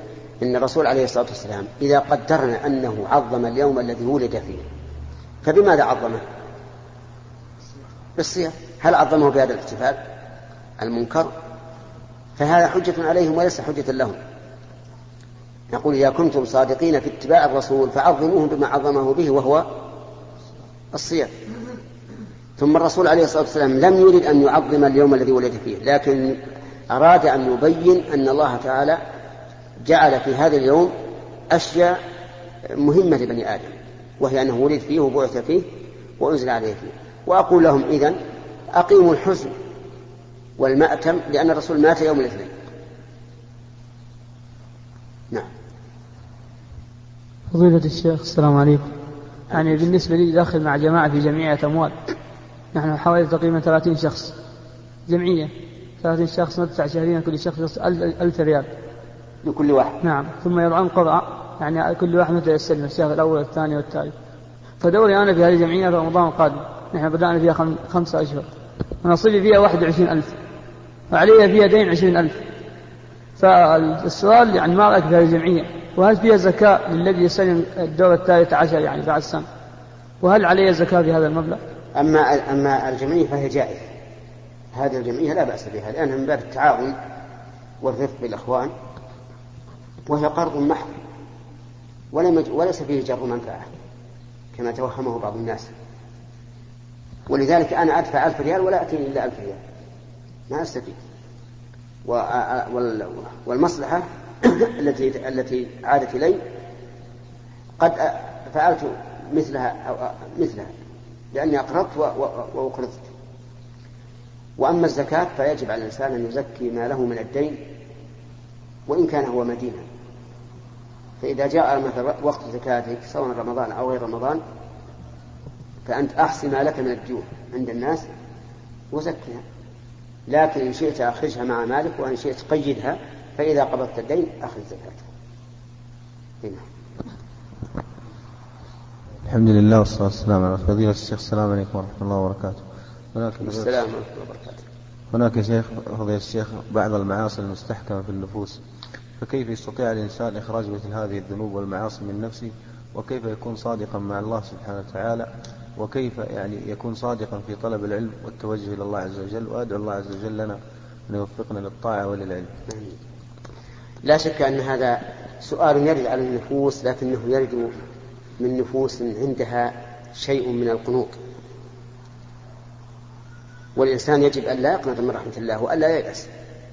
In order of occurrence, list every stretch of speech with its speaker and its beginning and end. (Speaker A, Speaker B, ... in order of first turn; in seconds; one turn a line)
Speaker A: 0.4-4.6
Speaker A: 5.4-6.2
Speaker A: 8.2-10.0
Speaker A: 10.8-11.3
Speaker A: 12.4-14.2
Speaker A: 15.7-19.7
Speaker A: 20.9-21.3
Speaker A: 22.6-29.0
Speaker A: 29.8-30.9
Speaker A: 31.5-32.0
Speaker A: 32.8-35.7
Speaker A: 36.2-38.2
Speaker A: 38.7-39.5
Speaker A: 40.6-42.5
Speaker B: 47.5-48.9
Speaker B: 49.5-51.9
Speaker B: 52.7-54.3
Speaker B: 55.1-58.7
Speaker A: 59.4-60.0
Speaker B: 60.0-64.1
Speaker B: 64.8-68.5
Speaker B: 69.0-70.3
Speaker B: 71.1-72.3
Speaker B: 73.4-79.5
Speaker B: 80.2-81.6
Speaker A: 82.0-83.8
Speaker A: 84.7-87.0
Speaker A: 87.8-88.7
Speaker A: 90.1-90.9
Speaker A: 92.1-93.7
Speaker A: 94.5-95.7
Speaker A: 97.3-99.6
Speaker A: 100.5-101.0
Speaker A: 102.0-106.4
Speaker A: 107.8-110.7
Speaker A: 111.3-113.1
Speaker A: 114.6-117.6
Speaker A: 118.9-119.8
Speaker A: 121.2-124.4
Speaker A: 125.8-128.0
Speaker A: 128.9-129.4
Speaker A: 130.3-135.0
Speaker C: 139.2-143.8
Speaker A: 143.4-144.6
Speaker C: 145.1-148.6
Speaker C: 149.2-162.5
Speaker A: 162.7-162.9
Speaker A: 164.0-167.7
Speaker A: 168.4-171.2
Speaker A: 173.8-176.3